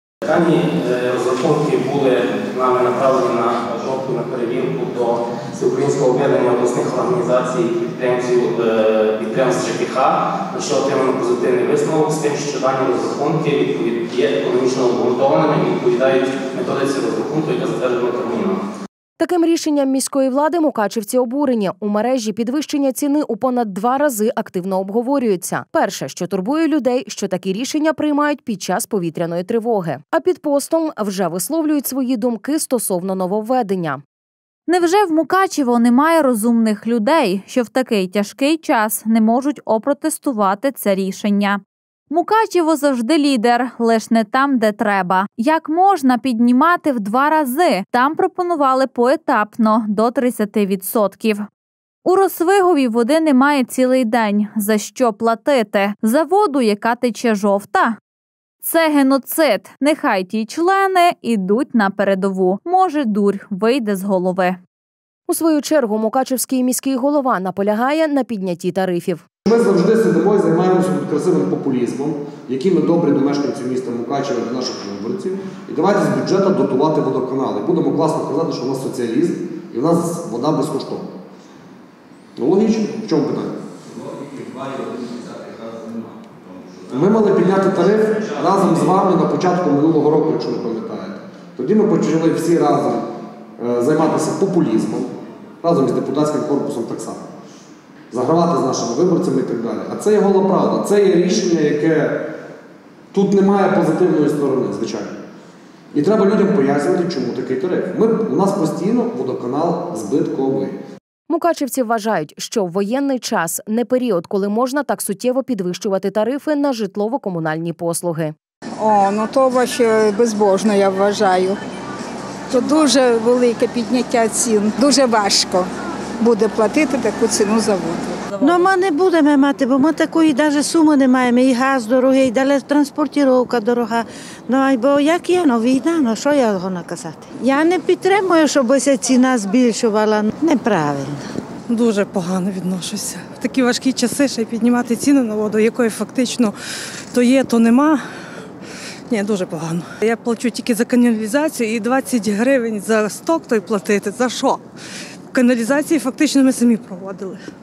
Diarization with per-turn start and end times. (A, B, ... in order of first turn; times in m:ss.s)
0:00.2-0:18.6 A
0:19.2-0:34.0 B
0:34.7-0:51.5 C
0:52.0-0:58.0 C
0:58.6-1:04.6 C
1:05.3-1:09.2 B
1:09.5-1:21.1 D
1:22.4-1:23.6 D
1:26.9-1:33.0 D
1:33.6-1:37.3 D
1:38.1-1:42.2 D
1:43.1-1:45.2 D
1:45.9-1:50.8 D
1:51.3-1:58.3 B
1:58.8-2:01.6 E
2:02.5-2:05.7 E
2:06.2-2:08.3 E
2:08.4-2:21.2 F
2:21.7-2:26.5 G
2:27.1-2:28.0 G
2:29.1-2:34.6 G
2:35.3-2:37.4 G